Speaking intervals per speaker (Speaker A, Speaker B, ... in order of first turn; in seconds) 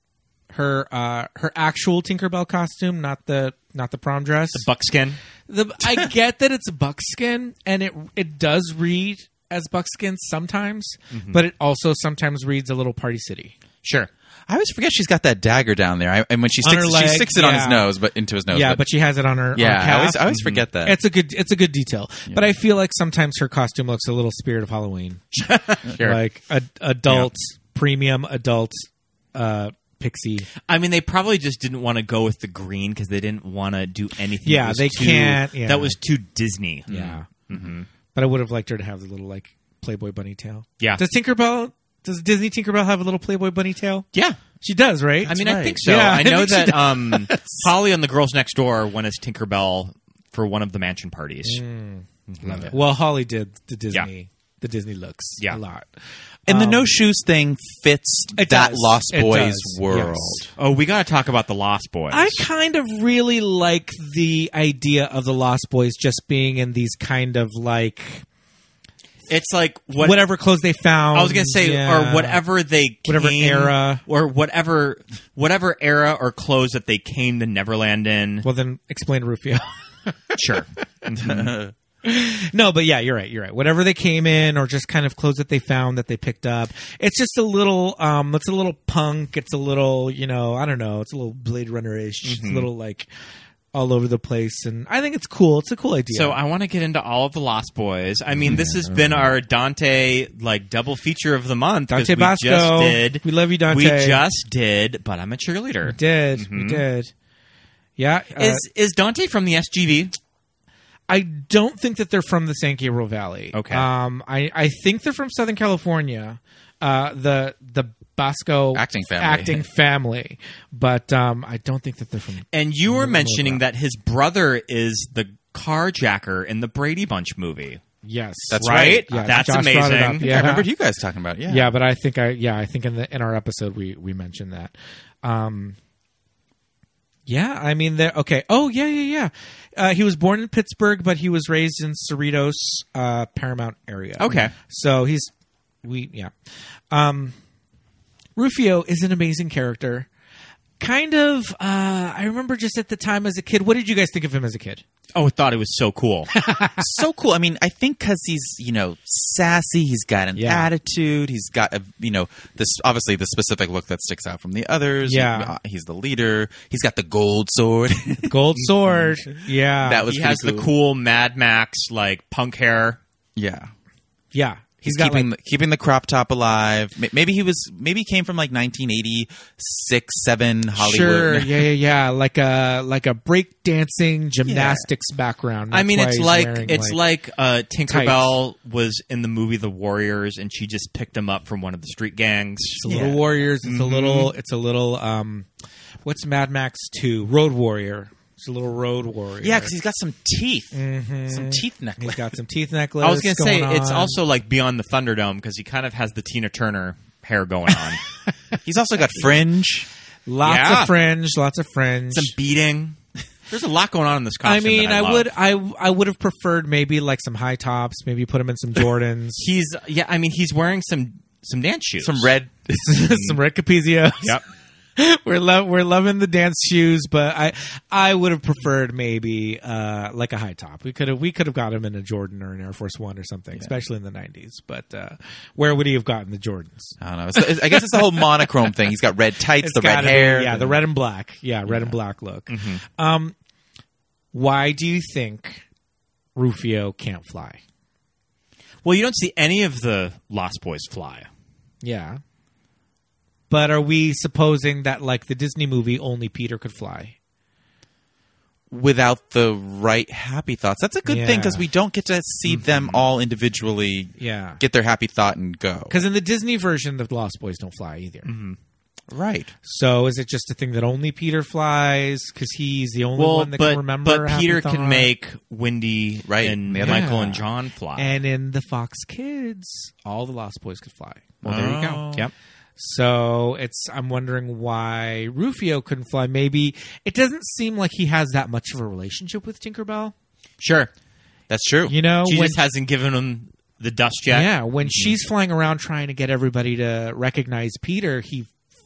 Speaker A: 0.5-4.6, 5.5-13.5, 16.6-17.9, 18.5-30.5, 34.4-36.0, 36.9-37.3, 38.1-44.0, 44.6-47.7, 51.4-55.9, 56.5-56.9, 58.3-60.5, 62.1-68.2, 70.0-72.4, 73.0-74.0, 78.4-80.4, 82.0-93.1, 93.7-96.4, 98.5-99.2, 101.9-104.2, 105.8-107.1, 108.0-108.6, 111.1-123.6, 128.0-130.7, 131.5-135.8, 137.3-145.3, 145.8-146.3, 146.9-147.3, 148.4-150.1, 150.8-154.8, 156.3-156.8, 160.3-160.7, 165.0-165.5, 168.3-170.1, 174.3-175.3, 180.7-187.0, 187.9-188.4, 192.8-195.5, 196.0-199.7, 200.7-204.2, 210.2-212.3, 214.4-219.4, 222.8-224.4, 224.9-236.9, 237.7-238.2, 239.6-243.3, 244.3-245.6, 246.3-247.6, 251.8-252.2, 253.5-257.1, 261.1-261.6, 264.2-264.6, 265.9-268.3, 269.6-275.1, 276.8-277.4, 277.9-282.1, 282.8-290.1, 291.9-292.6, 294.3-298.5
Speaker B: 4.5-5.2, 11.1-11.4, 13.8-14.1, 20.3-20.6, 25.3-26.2, 30.7-37.9, 44.1-44.4, 45.3-51.6, 52.3-52.7, 60.6-62.5, 69.3-70.2, 71.1-78.5, 80.3-81.5, 92.2-92.7, 96.1-106.8, 108.4-110.1, 113.5-113.9, 122.5-127.8, 128.6-130.4, 144.2-144.5, 155.1-156.3, 170.1-173.0, 185.7-193.0, 193.6-194.3, 203.0-208.0, 210.4-210.9, 212.1-213.0, 213.5-215.3, 219.4-222.3, 223.1-223.3, 242.5-242.8, 248.8-251.3, 262.4-263.0, 268.2-268.6, 273.2-278.1, 290.6-290.9, 292.2-295.1
Speaker C: 14.5-18.9, 19.5-21.0, 45.3-45.8, 52.4-52.7, 56.5-60.5, 81.2-81.7, 118.7-119.6, 128.5-129.5, 130.2-131.7, 156.8-168.4, 169.8-170.7, 173.3-173.7, 174.8-181.7, 184.4-184.8, 192.9-193.2, 199.4-202.3, 208.6-209.9, 222.0-222.9, 237.0-240.8, 241.7-241.9, 258.7-266.0, 269.1-269.5, 276.3-277.1, 281.4-282.3, 291.5-291.9